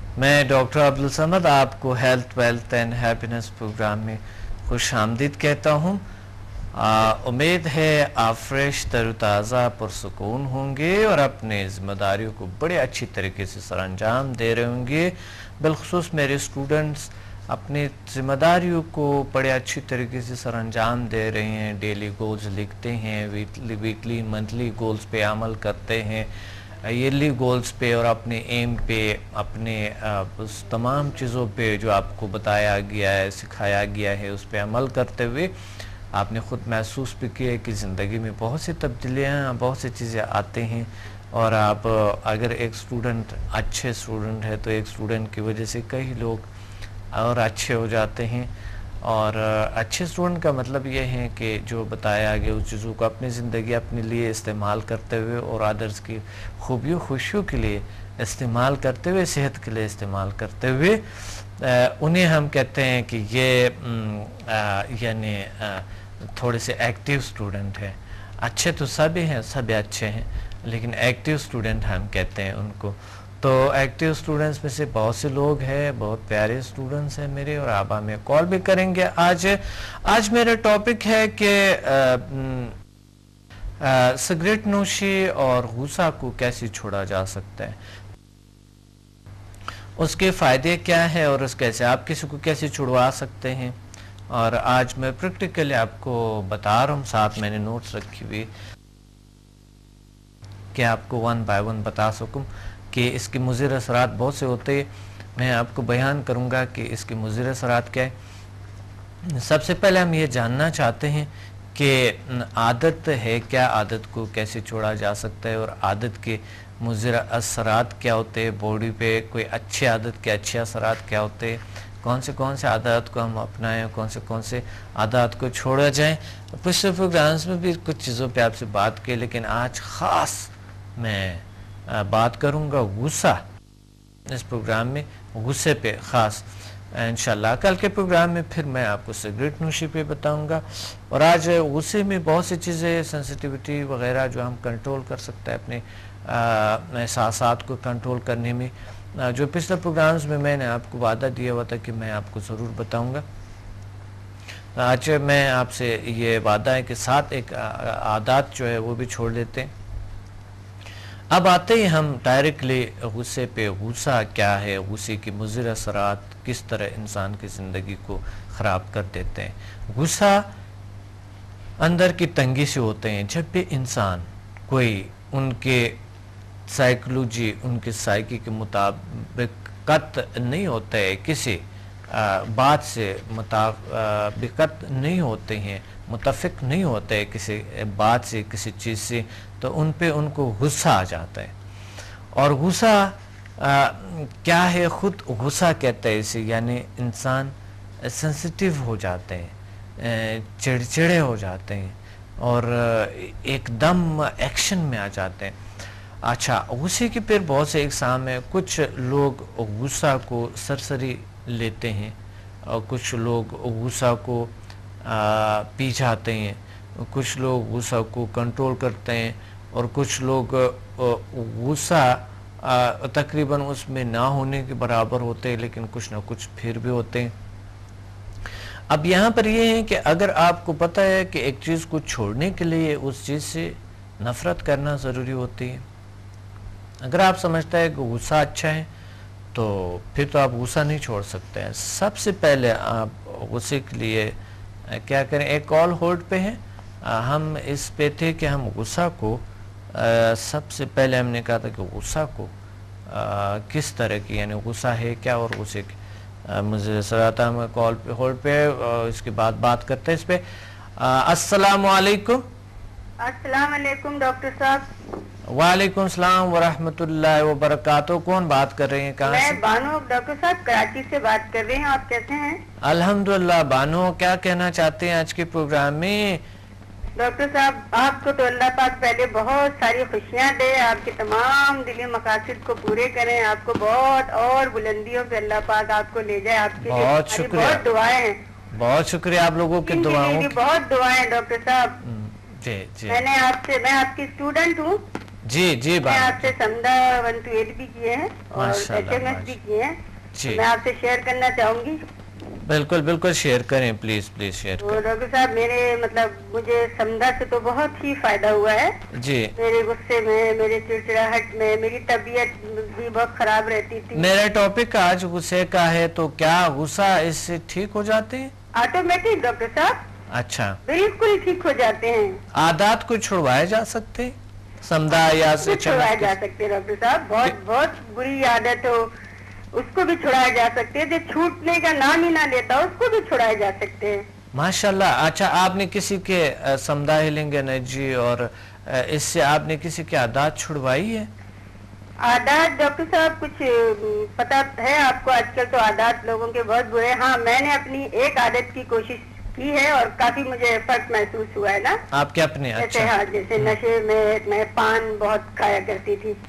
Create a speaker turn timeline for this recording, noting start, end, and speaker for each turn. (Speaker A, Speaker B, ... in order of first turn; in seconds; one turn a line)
Speaker A: 0.2-6.0
Speaker A: 6.7-26.3
Speaker A: 26.8-35.5
Speaker A: 36.1-46.5
Speaker A: 47.1-48.5
Speaker A: 49.0-82.8
Speaker A: 83.8-87.8
Speaker A: 90.0-93.8
Speaker A: 94.3-98.5
Speaker A: 100.7-108.1
Speaker A: 109.2-133.4
Speaker A: 134.3-153.2
Speaker A: 154.7-159.7
Speaker A: 161.3-170.5
Speaker A: 171.8-176.0
Speaker A: 176.7-191.5
Speaker A: 192.3-205.6
Speaker A: 206.2-214.5
Speaker A: 215.0-227.3
Speaker A: 228.9-235.8
Speaker A: 237.0-238.9
Speaker A: 239.5-244.3
Speaker A: 244.9-252.5
Speaker A: 253.1-260.4
Speaker A: 261.0-262.4
Speaker B: 263.2-264.9
Speaker A: 265.5-269.6
Speaker B: 269.2-272.6
Speaker A: 272.8-276.4
Speaker B: 277.2-288.4
Speaker A: 286.8-287.9
Speaker A: 288.7-290.6
Speaker B: 289.8-292.0
Speaker A: 292.0-293.2
Speaker B: 293.1-295.0
Speaker A: 295.4-296.5
Speaker B: 296.0-299.9
Speaker A: 298.6-299.6
Speaker A: 300.3-300.6
Speaker B: 300.5-302.0
Speaker A: 302.6-305.0
Speaker B: 304.8-309.0
Speaker A: 309.1-309.5
Speaker B: 309.6-314.3
Speaker A: 314.1-318.5
Speaker B: 318.7-320.0
Speaker A: 320.3-320.8
Speaker B: 320.9-322.4
Speaker A: 322.5-326.3
Speaker B: 325.2-329.1
Speaker B: 329.7-334.2
Speaker A: 334.5-341.3
Speaker B: 342.2-352.0
Speaker A: 352.1-353.7
Speaker B: 352.8-356.4